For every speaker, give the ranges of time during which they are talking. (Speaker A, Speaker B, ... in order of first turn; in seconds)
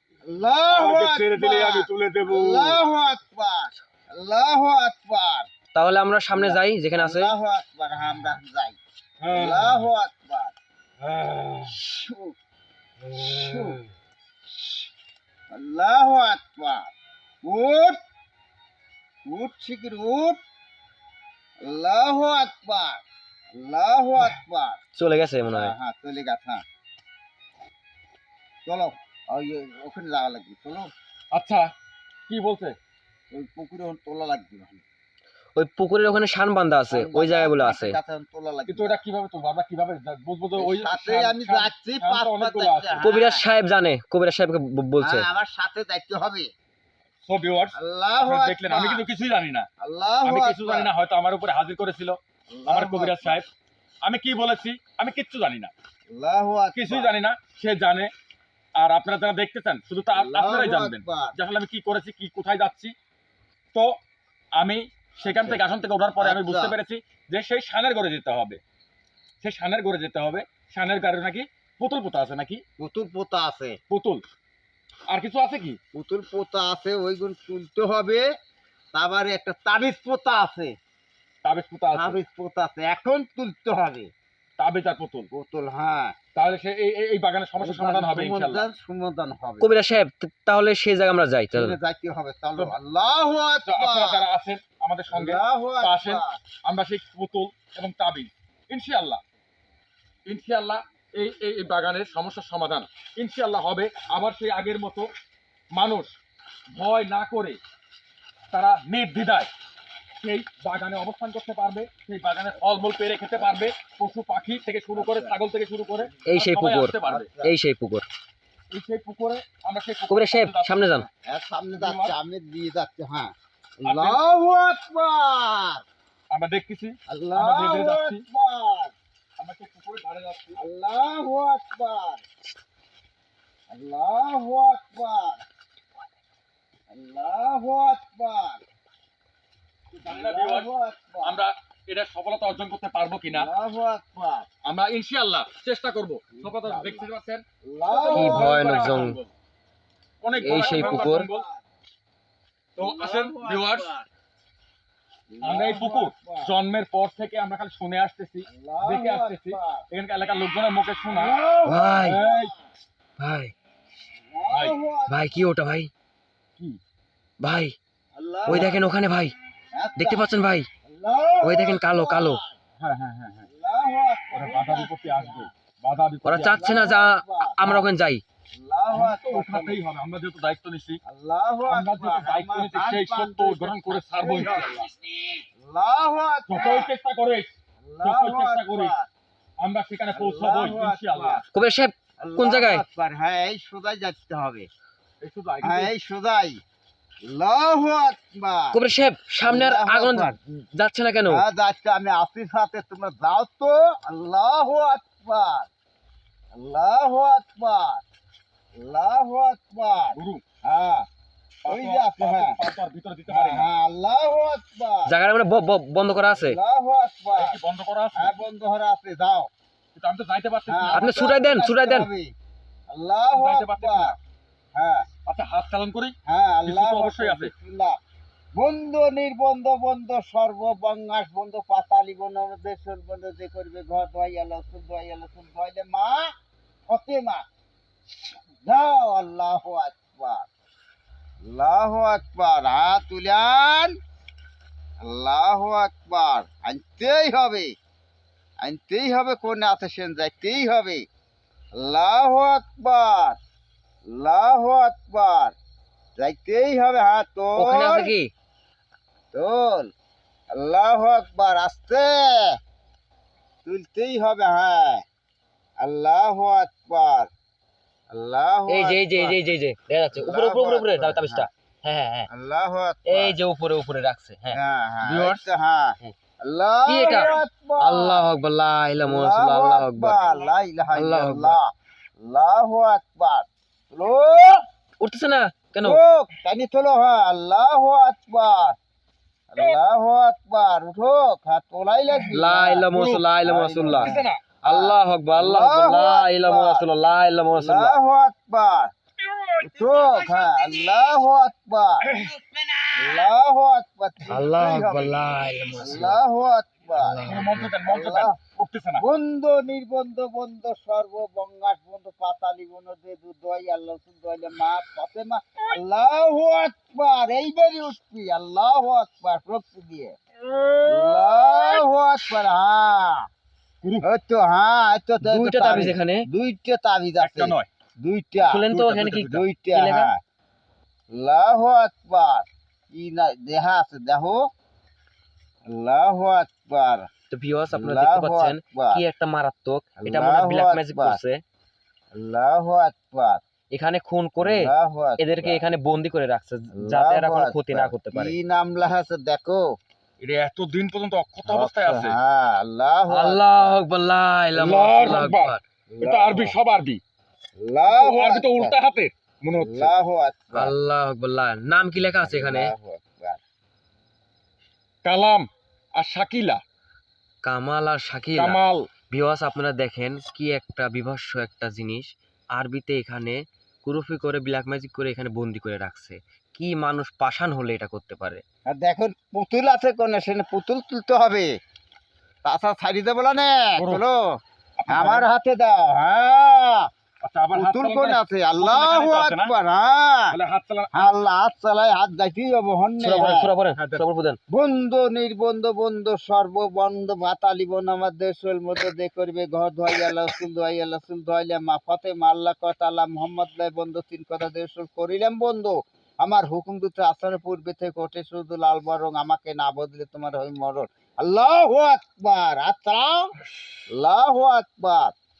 Speaker A: 0.3-5.5, 6.3-8.8, 9.3-10.5, 11.6-12.3, 13.1-13.8, 15.5-16.9, 17.4-18.0, 19.2-20.4, 21.6-23.0, 23.6-24.8, 25.5-26.6, 28.6-30.9, 33.3-34.8, 36.9-39.0, 40.5-43.5, 45.0-46.5, 47.7-49.0, 49.8-50.9, 52.5-53.4, 56.1-57.1, 60.1-61.3, 65.2-65.6, 66.2-66.8, 72.8-73.8, 75.9-78.2, 78.9-80.7, 81.9-84.1, 85.3-86.2, 87.6-89.7, 91.5-94.2, 95.1-96.4, 115.0-115.3, 117.0-117.5, 121.2-125.8, 127.1-128.9, 130.6-132.2, 133.7-135.4, 136.9-138.6, 140.1-141.4, 143.3-144.5, 146.3-147.1, 147.6-149.1, 150.3-151.6, 152.8-154.1, 155.3-156.5, 158.5-159.8, 161.1-162.7, 164.3-165.5, 168.1-168.8, 169.7-170.3, 170.8-172.6, 173.4-175.5, 176.3-177.6, 178.5-179.8, 181.0-184.9, 185.5-186.9, 187.8-189.1, 190.1-191.4, 192.2-194.7, 195.6-196.6, 197.2-198.8, 199.4-200.4, 201.3-205.7, 206.5-208.0, 208.8-211.1, 211.7-212.6, 213.3-215.1, 216.3-217.6, 218.1-219.5, 220.7-222.3, 222.9-224.2, 224.7-225.1, 226.3-228.0, 228.5-236.3, 236.9-237.4, 238.6-240.5, 241.4-243.9, 245.0-247.7, 248.6-251.1, 251.8-253.4, 254.1-255.5, 256.2-258.1, 259.3-259.9, 260.5-262.6, 263.6-265.0, 265.8-267.3, 268.1-269.4, 270.1-271.5, 272.3-273.4, 274.5-278.2, 279.1-284.6, 285.8-288.8, 289.5-292.9, 293.4-296.9, 297.6-298.9, 299.6-302.2, 302.9-308.4, 309.0-320.2, 320.8-323.3, 324.0-328.7, 329.2-330.2, 331.1-334.5, 335.7-337.1, 337.7-339.0, 340.0-341.2, 342.1-343.4, 344.4-345.6, 346.7-349.6, 351.4-353.8, 355.9-356.6, 357.6-358.7, 359.6-360.7, 362.2-363.4, 378.7-381.5, 382.4-384.4, 384.9-386.9, 387.5-390.4, 390.9-393.5, 394.5-413.3, 413.9-415.1
Speaker B: 0.7-2.7, 9.2-9.7, 11.0-11.7, 31.3-31.7, 32.3-32.7, 38.7-43.1, 47.3-49.7, 50.2-53.5, 54.0-55.7, 56.7-58.1, 58.8-62.9, 64.6-68.6, 69.4-72.6, 73.9-74.2, 75.1-75.8, 81.4-82.2, 84.6-85.3, 86.3-88.7, 93.7-99.2, 100.3-105.1, 105.7-106.1, 106.8-107.6, 108.5-109.5, 110.2-117.3, 118.7-121.0, 121.8-122.2, 123.8-124.2, 126.3-128.2, 129.4-130.6, 139.9-140.7, 141.2-143.5, 144.6-149.3, 150.2-151.4, 152.8-153.9, 155.4-161.4, 162.0-162.5, 164.5-164.8, 168.5-168.8, 172.8-173.4, 174.3-176.7, 178.9-181.0, 181.7-184.9, 186.5-187.5, 188.0-188.9, 189.6-191.4, 195.2-195.9, 210.1-210.4, 211.6-213.7, 217.3-218.4, 219.9-221.3, 223.3-224.2, 225.2-226.1, 226.7-227.5, 275.1-275.4, 292.9-293.2, 294.0-294.4, 299.2-301.1, 302.0-303.2, 307.2-309.0, 320.4-321.8, 323.8-324.1, 327.2-327.7, 328.6-329.4, 350.2-352.2, 354.6-357.0, 357.9-359.9, 365.0-365.4, 366.0-366.6, 368.3-368.9, 384.8-385.3, 387.2-389.5, 390.3-391.1, 393.8-394.0
Speaker C: 5.7-7.3, 25.0-25.7, 35.5-38.0, 43.0-45.2, 89.6-91.8, 116.2-118.0, 120.1-121.0, 148.1-149.2, 150.4-151.3, 161.6-162.2, 163.2-163.5, 165.1-165.9, 167.4-167.8, 168.5-169.3, 170.0-170.7, 171.4-172.4, 176.2-178.2, 191.5-192.8, 198.7-201.4, 215.1-216.6, 220.9-222.1, 257.6-258.3, 268.7-272.3, 273.1-274.6, 276.9-280.2, 280.9-281.6, 285.0-286.0, 292.3-298.0, 304.3-306.2, 306.9-307.7, 325.2-326.3, 328.4-330.1, 337.3-341.4, 343.7-348.3, 353.1-355.6, 360.5-362.7, 367.4-368.6, 369.1-378.4, 393.0-394.4